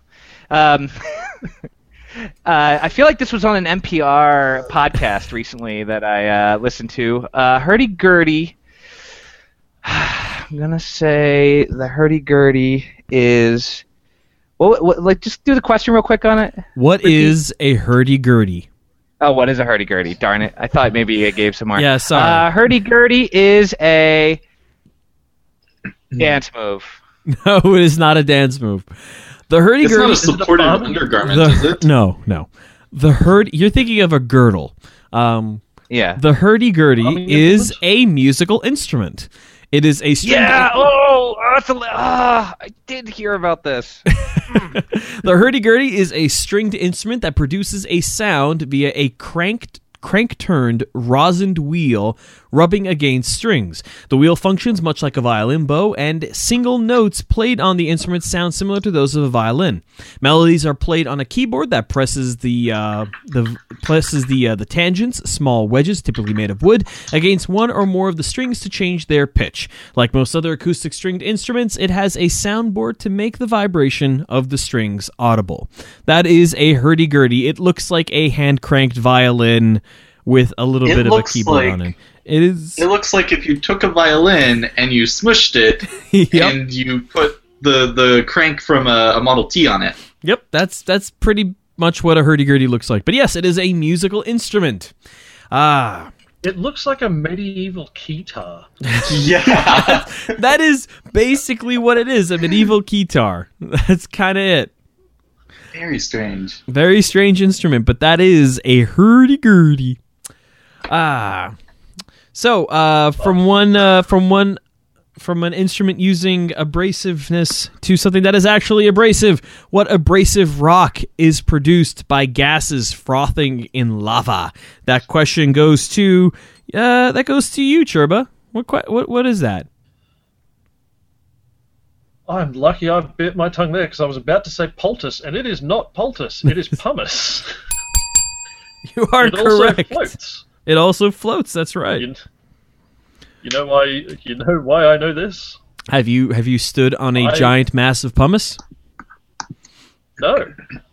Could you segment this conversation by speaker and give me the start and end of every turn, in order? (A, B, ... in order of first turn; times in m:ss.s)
0:00.5-0:01.5 A
0:02.4-0:08.6 A
0:09.8-0:13.8 A
0:14.6-0:17.3 A
0:16.8-0:18.7 B
0:19.2-0:24.4 A
0:21.7-0:22.5 B
0:26.2-0:27.0 A
0:27.3-0:28.9 B
0:29.5-0:30.4 B
0:29.8-0:31.8 C
0:30.2-0:31.1 D
0:31.2-0:35.6 B
0:35.9-0:36.2 A
0:36.2-0:40.9 B
0:37.0-0:37.8 D
0:40.2-0:44.7 A
0:44.1-1:22.8 B
1:20.8-1:21.9 C
1:22.8-1:30.0 C
1:26.0-1:26.5 B
1:30.2-1:34.9 B
1:35.5-1:36.1 B
1:36.4-1:38.7 D
1:38.9-1:44.7 B
1:39.0-1:40.4 C
1:45.7-1:46.6 C
1:46.7-1:50.0 B
1:50.9-1:51.5 B
1:52.3-1:54.6 B
1:55.2-2:09.7 B
2:12.3-2:17.5 D
2:18.8-2:20.1 B
2:19.2-2:20.5 D
2:20.6-2:22.0 B
2:22.0-2:22.2 D
2:23.4-2:25.6 D
2:25.9-2:28.6 B
2:27.2-2:27.5 D
2:30.2-2:30.6 D